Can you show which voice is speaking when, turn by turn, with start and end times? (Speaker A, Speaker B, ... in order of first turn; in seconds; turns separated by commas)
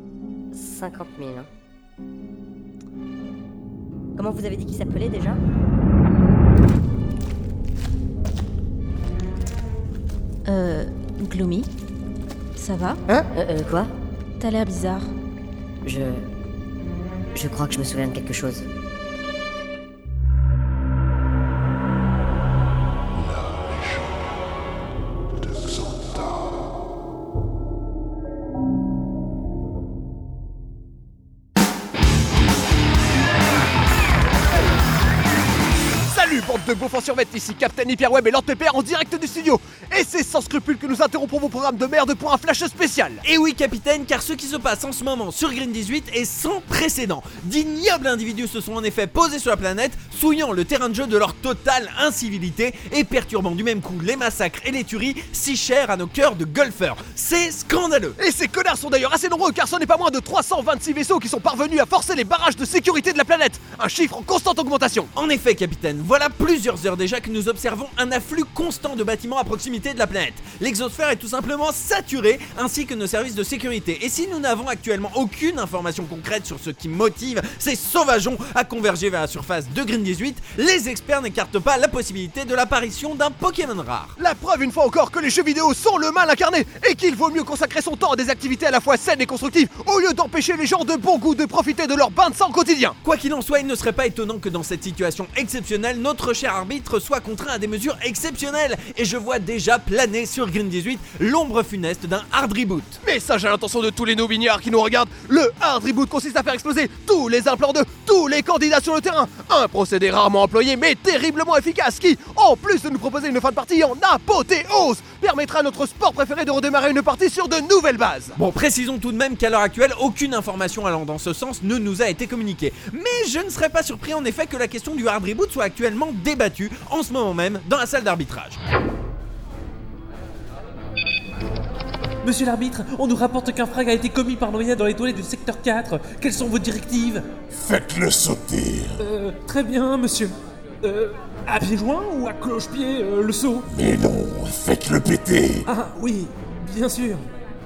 Speaker A: 0.5-1.5, Speaker A: 4.2-5.4, Speaker B: 10.4-11.7, Speaker B: 12.6-13.0, Speaker A: 13.1-13.9, Speaker B: 14.4-15.1, Speaker A: 15.8-16.3, Speaker A: 17.3-18.6, Speaker C: 36.0-43.2, Speaker D: 43.2-58.2, Speaker C: 58.2-65.1, Speaker D: 65.1-84.2, Speaker C: 84.2-93.0, Speaker D: 93.0-103.0, Speaker C: 103.0-118.3, Speaker D: 118.3-128.6, Speaker E: 132.2-137.2, Speaker F: 137.5-139.0, Speaker E: 139.0-143.7, Speaker F: 143.7-145.7, Speaker E: 145.7-147.3